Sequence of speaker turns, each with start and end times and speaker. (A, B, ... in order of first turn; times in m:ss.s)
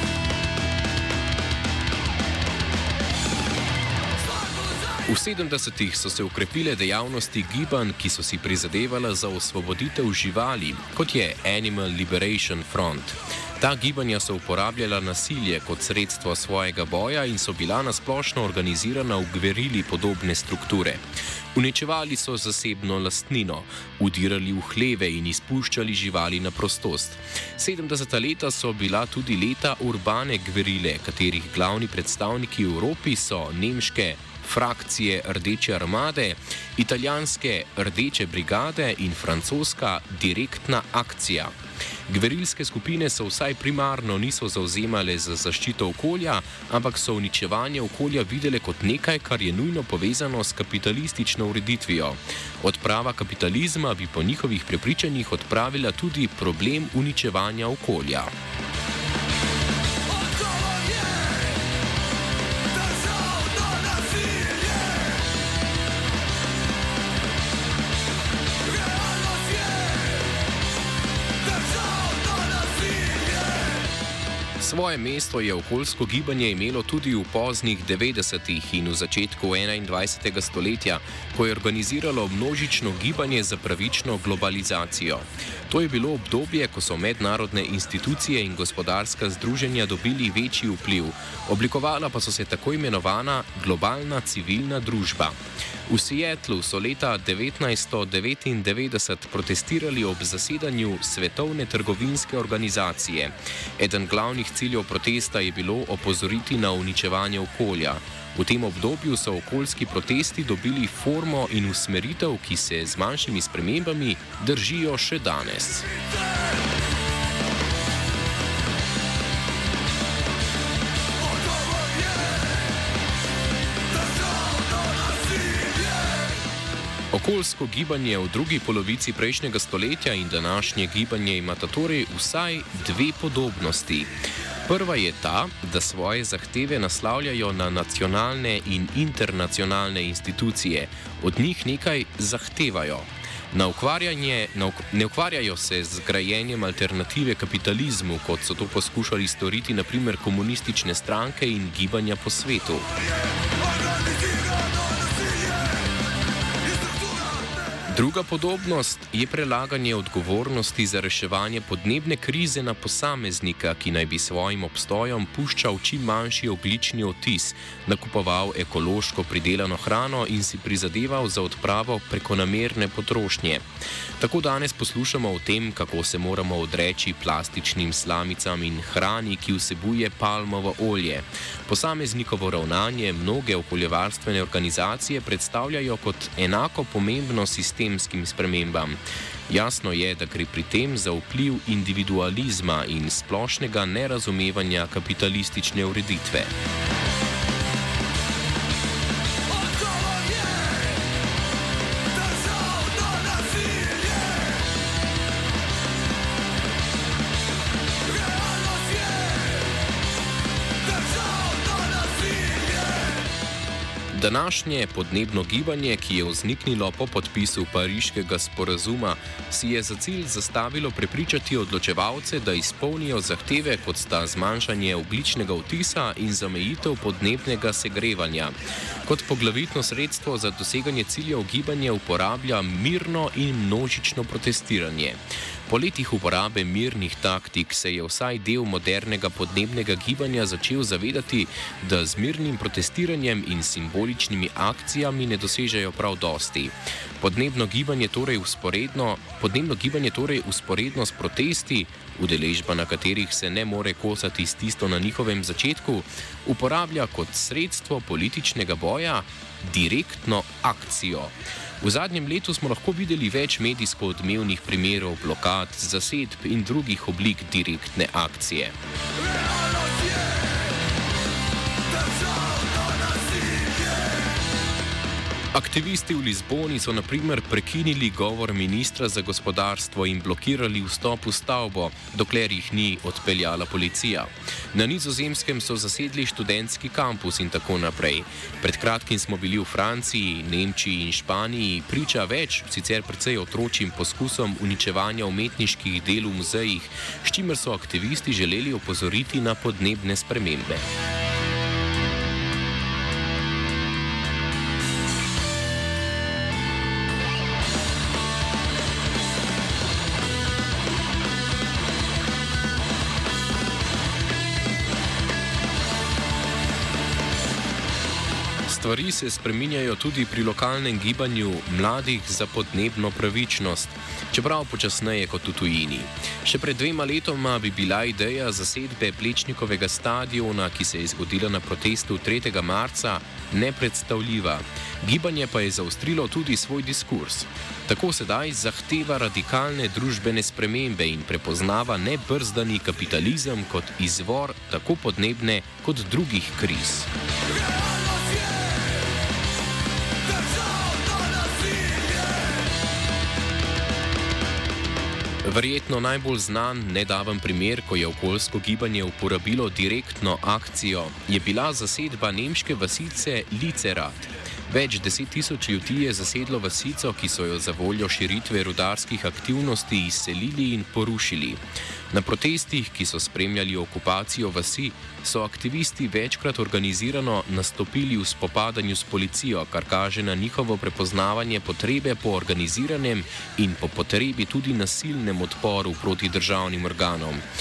0:05.0-0:21.0 A
0:21.5-0:41.6 A
0:42.1-0:58.3 A
1:14.6-1:55.9 A
2:07.1-2:14.1 A
2:14.6-2:32.9 A
2:37.8-2:53.6 A
2:54.2-3:16.5 A
3:34.1-3:48.5 A
3:49.0-4:28.8 A
4:35.5-5:00.9 A
5:18.7-5:47.1 A
5:55.4-6:11.6 A
6:12.1-6:27.4 A